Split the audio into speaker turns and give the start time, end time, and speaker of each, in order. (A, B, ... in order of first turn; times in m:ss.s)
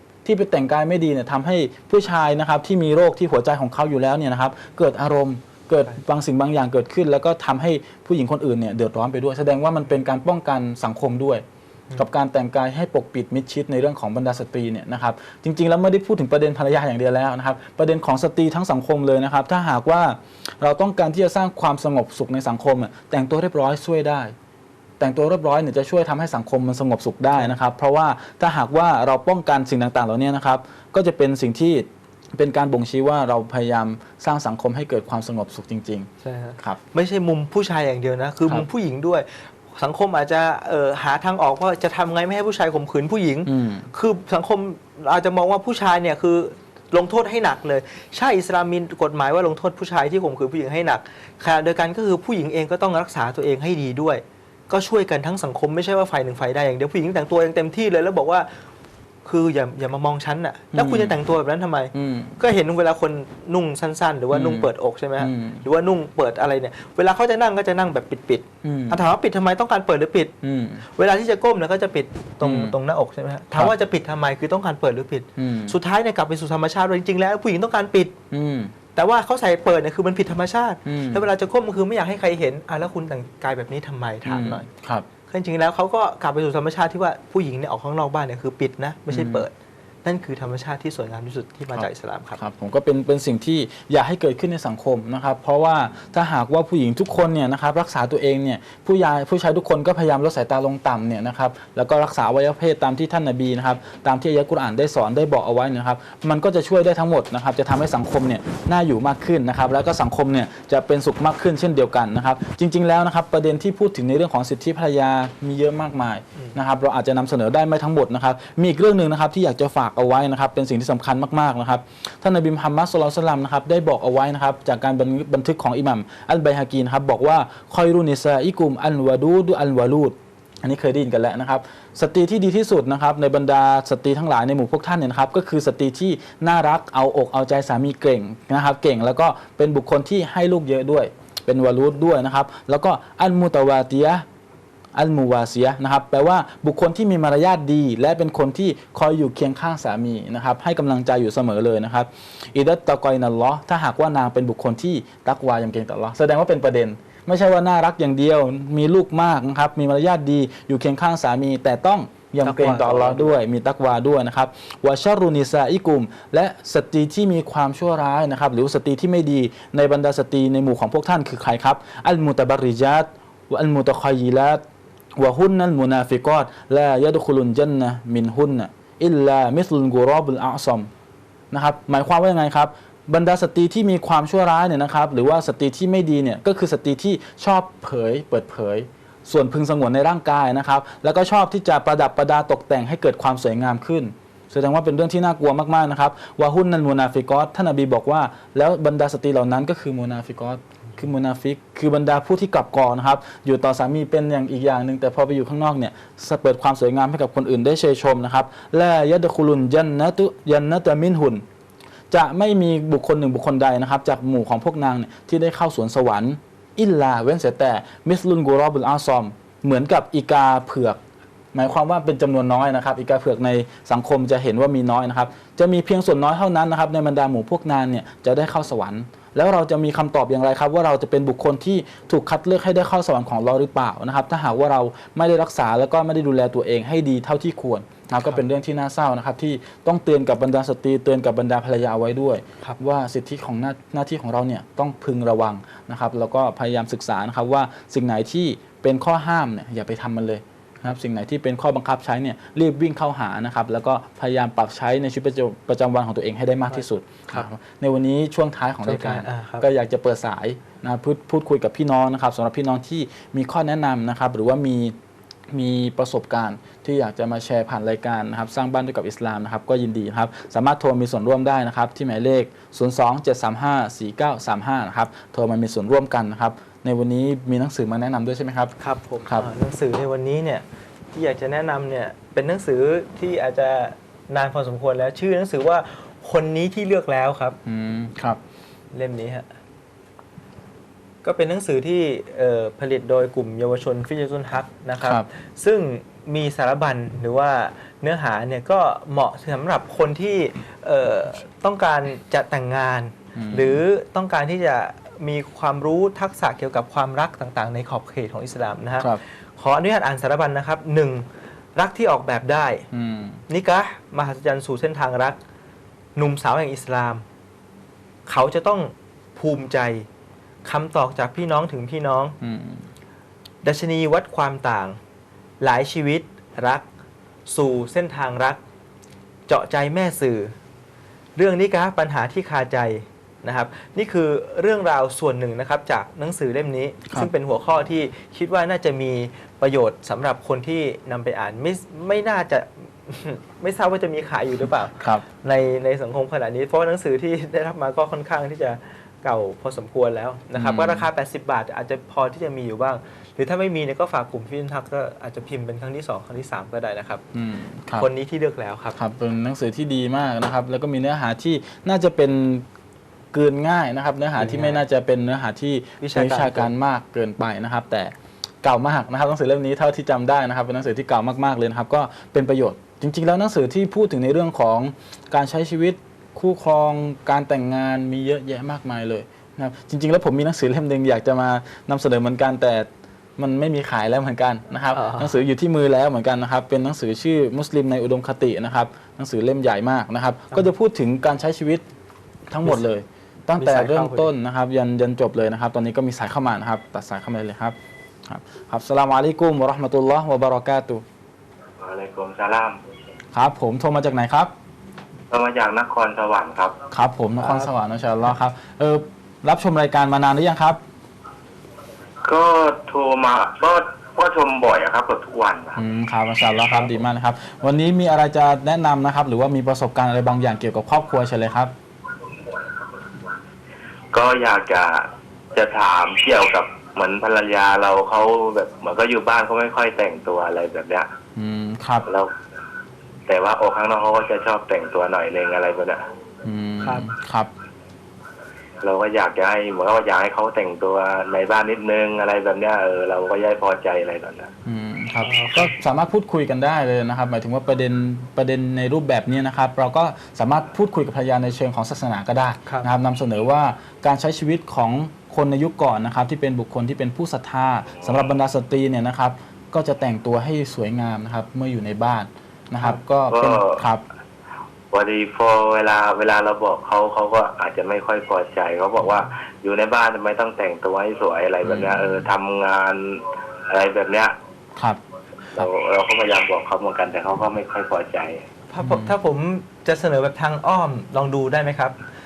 0:00.2-0:11.4 A
0:12.0-0:24.3 A
0:25.0-0:36.8 A
0:36.2-0:58.5 B
0:43.4-0:43.9 A
0:59.2-1:10.3 B
1:00.7-1:01.2 A
1:01.9-1:02.4 A
1:04.3-1:05.6 A
1:08.6-1:09.0 A
1:10.4-1:10.8 A
1:10.9-1:18.2 B
1:12.4-1:12.7 A
1:15.4-1:15.7 A
1:18.3-1:18.7 A
1:18.9-1:24.7 B
1:20.8-1:21.2 A
1:24.2-1:25.1 A
1:25.3-1:29.5 B
1:29.1-1:29.4 A
1:30.0-1:32.4 B
1:31.7-2:24.2 A
2:24.9-2:54.6 A
2:42.4-2:43.3 B
2:55.2-3:00.9 A
3:01.5-3:31.4 A
3:32.1-3:41.0 A
3:41.5-4:24.9 A
4:16.7-4:17.4 B
4:18.8-4:19.7 B
4:25.5-4:38.7 A
4:38.8-4:47.6 B
4:47.6-4:48.4 A
4:48.9-4:49.5 B
4:51.2-5:11.2 B
4:55.0-4:55.2 A
5:03.3-5:03.8 A
5:11.8-5:12.9 B
5:12.9-5:13.4 A
5:13.5-5:15.4 B
5:16.2-5:17.2 B
5:18.2-5:20.1 B
5:20.6-5:22.4 B
5:22.4-5:22.8 A
5:23.6-5:25.0 B
5:25.6-5:26.8 B
5:27.5-5:28.6 B
5:29.5-5:30.5 B
5:31.4-5:57.2 B
5:45.0-5:45.2 A
5:50.6-5:51.1 A
5:57.3-5:58.1 A
5:57.9-5:59.0 B
5:59.0-6:02.6 A
6:03.3-6:31.8 A
6:04.4-6:04.8 B
6:06.0-6:06.7 B
6:24.9-6:25.3 B
6:32.5-6:41.0 A
6:33.6-6:34.3 B
6:41.8-6:42.8 C
6:43.3-6:44.5 A
6:45.3-6:46.8 C
6:46.9-6:50.8 A
6:47.4-6:47.7 B
6:52.2-6:55.8 C
6:55.8-7:01.7 A
7:04.1-7:11.1 C
7:11.4-7:12.0 A
7:12.1-7:12.3 C
7:13.3-7:16.0 C
7:16.4-7:17.5 A
7:18.8-7:24.5 C
7:24.6-7:44.0 A
7:25.2-7:25.7 B
7:43.3-7:43.8 C
7:44.9-7:54.3 C
7:51.6-7:52.3 A
7:55.5-7:58.4 C
7:58.7-8:01.9 B
7:58.8-7:59.1 A